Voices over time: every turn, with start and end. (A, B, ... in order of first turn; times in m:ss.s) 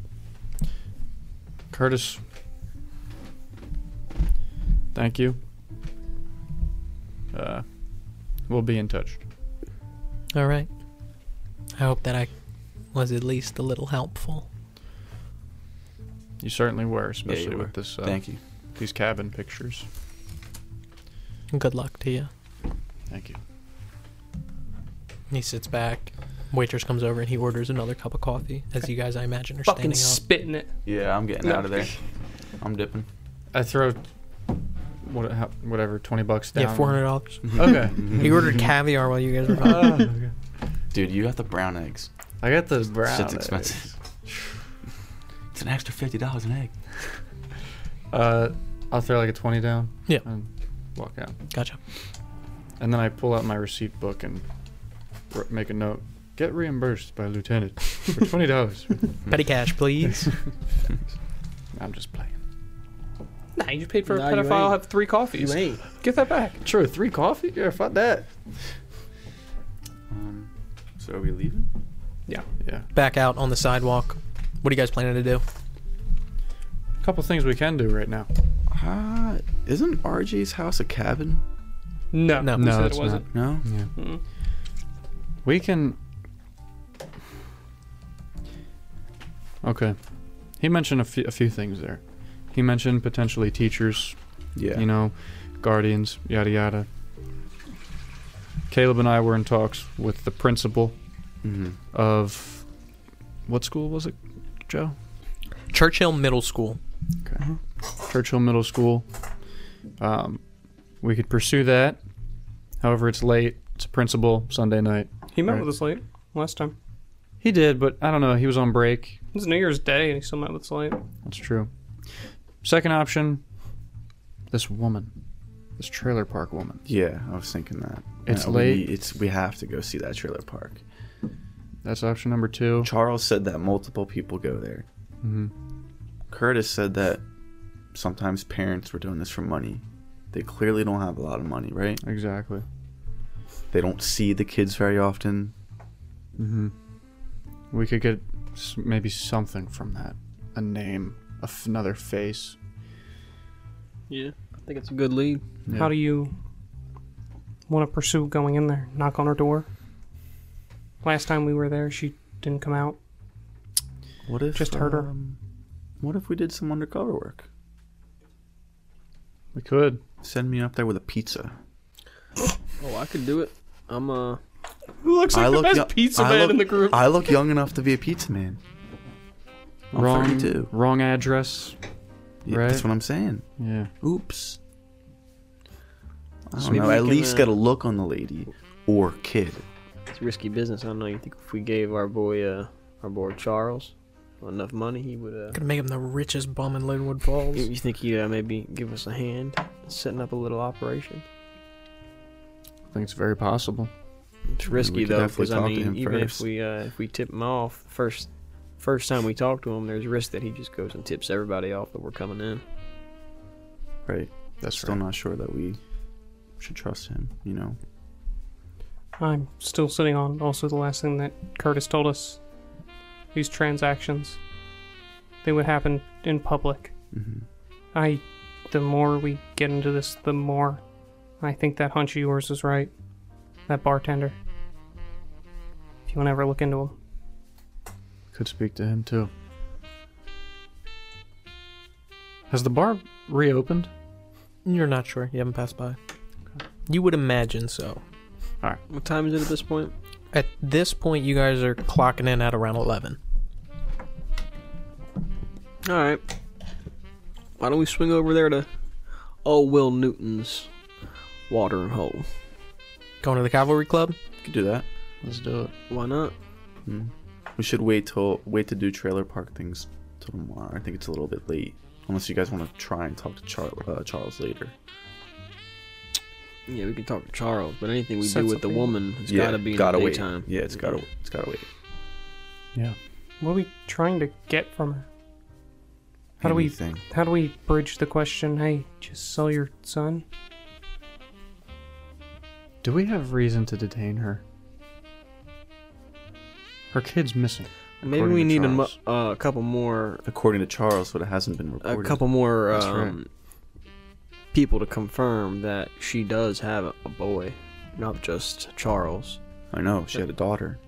0:01.7-0:02.2 A
0:04.9-0:05.4 A
0:07.3-0:07.6 A
0:08.5-0:09.2 A
0:10.3-0:10.7 B
0:11.8-0:12.3 B
0:12.9-0:14.5 B
0:16.4-0:18.2 A
0:17.3-0:18.4 C
0:18.7-0:19.9 A
0:21.5-0:22.3 B
0:23.1-0:23.4 A
0:25.3-0:30.2 B
0:29.6-0:30.8 D
0:30.8-0:31.9 C
0:31.4-0:31.9 D
0:32.6-0:33.1 C
0:33.5-0:34.0 A
0:35.0-0:38.4 A
0:36.5-0:40.1 B
0:37.4-0:38.5 C
0:39.5-0:40.3 A
0:40.9-0:42.1 C
0:42.4-0:43.9 A
0:43.0-0:43.9 C
0:45.5-0:46.9 C
0:48.1-0:51.3 A
0:51.5-0:51.8 B
0:52.8-0:54.4 A
0:55.3-0:59.1 A
0:59.3-1:00.3 B
1:01.7-1:02.4 A
1:03.6-1:06.6 D
1:04.0-1:04.8 E
1:05.3-1:05.8 E
1:06.6-1:08.3 A
1:10.1-1:11.7 C
1:12.6-1:12.8 A
1:12.9-1:15.4 B
1:17.0-1:18.3 A
1:18.7-1:21.4 C
1:22.1-1:23.3 D
1:22.4-1:22.8 B
1:22.5-1:23.9 A
1:23.3-1:23.6 C
1:24.0-1:24.2 D
1:25.4-1:26.0 A
1:29.6-1:30.0 A
1:30.6-1:32.0 A
1:32.5-1:34.2 A
1:34.6-1:34.8 C
1:34.7-1:36.9 A
1:38.7-1:41.0 A
1:41.4-1:41.8 C
1:41.9-1:42.6 A
1:43.5-1:45.0 A
1:45.7-1:46.8 B
1:48.0-1:49.1 A
1:50.0-1:50.4 A
1:51.0-1:52.0 A
1:52.8-1:55.6 A
1:55.3-1:56.7 D
1:57.4-1:59.2 A
1:59.3-2:01.0 D
2:01.2-2:01.7 A
2:02.6-2:03.4 A
2:04.5-2:05.1 A
2:05.8-2:06.8 A
2:06.8-2:10.8 C
2:08.2-2:08.9 A
2:11.8-2:12.9 A
2:12.8-2:14.8 C
2:15.2-2:15.5 A
2:16.3-2:17.2 C
2:17.9-2:22.0 C
2:22.0-2:22.6 A
2:23.7-2:25.5 C
2:26.4-2:26.7 A
2:27.7-2:32.6 A
2:34.1-2:35.4 E
2:35.7-2:36.3 D
2:37.7-2:39.7 D
2:41.0-2:43.0 D
2:44.3-2:45.4 C
2:44.6-2:45.1 D
2:46.0-2:47.5 C
2:49.5-2:50.0 A
2:50.2-2:51.6 C
2:52.8-2:54.4 E
2:55.0-2:57.1 D
2:55.3-2:58.6 C
2:59.9-3:00.7 C
2:59.9-3:01.8 A
3:02.4-3:03.4 C
3:02.5-3:02.9 A
3:03.6-3:03.9 A
3:04.0-3:04.6 C
3:06.5-3:09.6 C
3:06.6-3:07.5 E
3:10.1-3:15.6 E
3:15.5-3:17.7 B
3:17.5-3:21.2 E
3:22.9-3:23.9 A
3:24.5-3:32.6 E
3:24.7-3:26.4 C
3:34.0-3:35.8 C
3:34.6-3:35.0 A
3:36.6-3:37.8 C
3:39.2-3:42.4 D
3:43.3-3:44.4 D
3:45.4-3:46.9 D
3:47.1-3:47.4 C
3:47.9-3:50.8 D
3:51.4-3:52.9 D
3:53.7-3:54.4 D
3:56.1-3:56.9 D
3:58.3-3:59.3 A
4:02.5-4:03.9 A
4:04.6-4:06.0 B
4:06.9-4:08.0 B
4:08.9-4:09.9 E
4:10.3-4:13.2 B
4:15.8-4:16.2 E
4:17.6-4:18.7 E
4:19.4-4:20.7 E
4:21.5-4:22.3 E
4:23.2-4:24.2 B
4:24.4-4:24.8 C
4:25.2-4:25.7 A
4:25.9-4:26.3 E
4:26.9-4:34.7 C
4:36.7-4:41.0 E
4:38.2-4:38.9 D
4:39.3-4:41.6 C
4:43.4-4:45.0 D
4:46.4-4:47.0 C
4:46.4-4:50.2 D
4:52.8-4:54.4 A
4:56.9-4:58.9 A
4:58.0-5:00.2 E
5:00.2-5:02.2 C
5:01.8-5:03.3 E
5:02.7-5:03.2 A
5:04.5-5:09.4 E
5:09.7-5:10.8 C